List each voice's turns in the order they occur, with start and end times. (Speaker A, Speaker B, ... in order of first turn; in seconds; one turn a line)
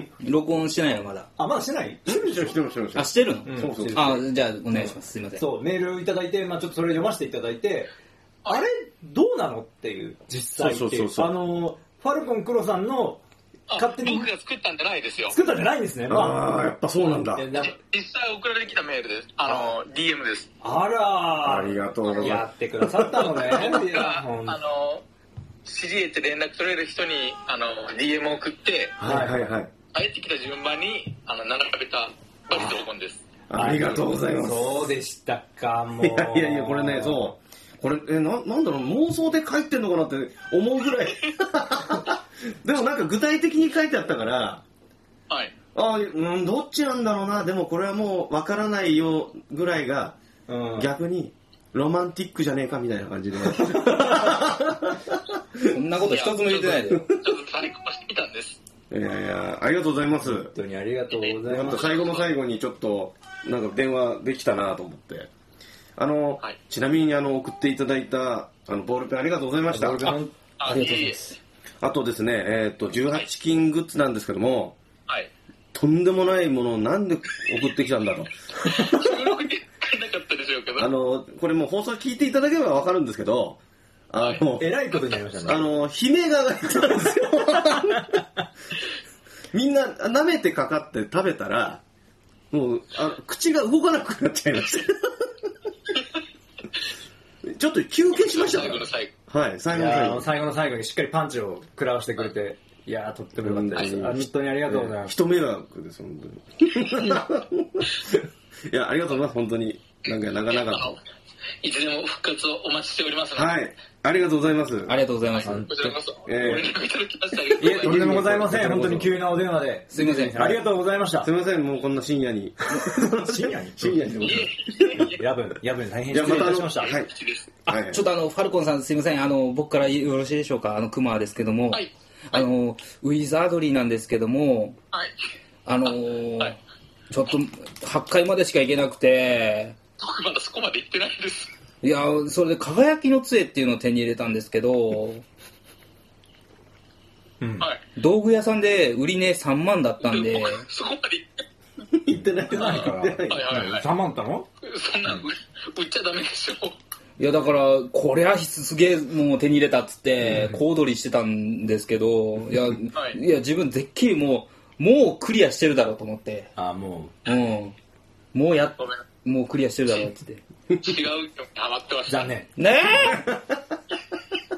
Speaker A: 0.2-1.3
Speaker B: 1.4-2.6
Speaker C: 2.1-4.2
Speaker A: 3.0-5.5
Speaker B: 3.5-7.9
Speaker B: 8.5-13.2
Speaker C: 10.6-11.3
Speaker D: 13.7-15.4
Speaker B: 13.7-14.3
Speaker B: 15.3-17.8
Speaker C: 16.1-17.5
Speaker D: 17.6-20.5
Speaker B: 19.5-19.7
Speaker B: 20.6-24.6
Speaker C: 21.4-22.5
Speaker D: 23.3-25.0
Speaker D: 25.6-29.0
Speaker B: 29.0-29.4
Speaker C: 29.0-29.7
Speaker D: 29.9-33.2
Speaker C: 33.5-34.9
Speaker B: 33.6-37.2
Speaker C: 36.0-44.6
Speaker C: 45.8-50.2
Speaker B: 50.5-50.9
Speaker C: 50.7-55.7
Speaker A: 55.7-57.1
Speaker D: 55.9-58.6
Speaker C: 58.9-60.5
Speaker B: 60.2-62.0
Speaker D: 61.2-62.3
Speaker C: 61.5-65.3
Speaker C: 66.0-70.2
Speaker B: 69.7-70.3
Speaker A: 70.0-71.4
Speaker D: 70.6-71.3
Speaker C: 71.8-74.8
Speaker C: 75.7-78.3
Speaker D: 78.6-80.9
Speaker C: 80.8-84.8
Speaker B: 84.6-85.7
Speaker C: 85.4-88.2
Speaker B: 87.3-87.9
Speaker C: 89.5-91.8
Speaker C: 92.5-95.3
Speaker C: 97.4-100.3
Speaker D: 98.1-99.1
Speaker B: 99.7-105.2
Speaker C: 103.4-111.0
Speaker D: 110.5-111.0
Speaker D: 111.6-113.5
Speaker C: 113.3-115.0
Speaker A: 114.9-115.7
Speaker D: 115.3-118.2
Speaker B: 115.4-116.0
Speaker C: 116.2-116.8
Speaker B: 117.6-121.3
Speaker C: 117.7-119.3
Speaker A: 119.9-120.6
Speaker C: 121.2-124.7
Speaker B: 122.7-124.1
Speaker D: 124.2-125.2
Speaker B: 125.0-127.0
Speaker C: 126.1-127.1
Speaker D: 126.8-127.5
Speaker C: 127.7-128.1
Speaker A: 127.7-134.8
Speaker D: 131.7-132.5
Speaker A: 135.7-136.6
Speaker A: 137.1-139.8
Speaker D: 140.0-141.5
Speaker A: 141.8-145.2
Speaker B: 147.4-147.7
Speaker A: 148.0-150.6
Speaker D: 150.0-151.4
Speaker C: 151.9-153.6
Speaker B: 152.1-154.5
Speaker D: 153.3-153.9
Speaker D: 154.6-156.8
Speaker A: 157.2-166.5
Speaker B: 160.3-160.6
Speaker B: 166.6-167.2
Speaker A: 167.2-167.8
Speaker A: 168.3-170.4
Speaker D: 170.7-172.3
Speaker B: 172.1-172.5
Speaker A: 172.6-173.3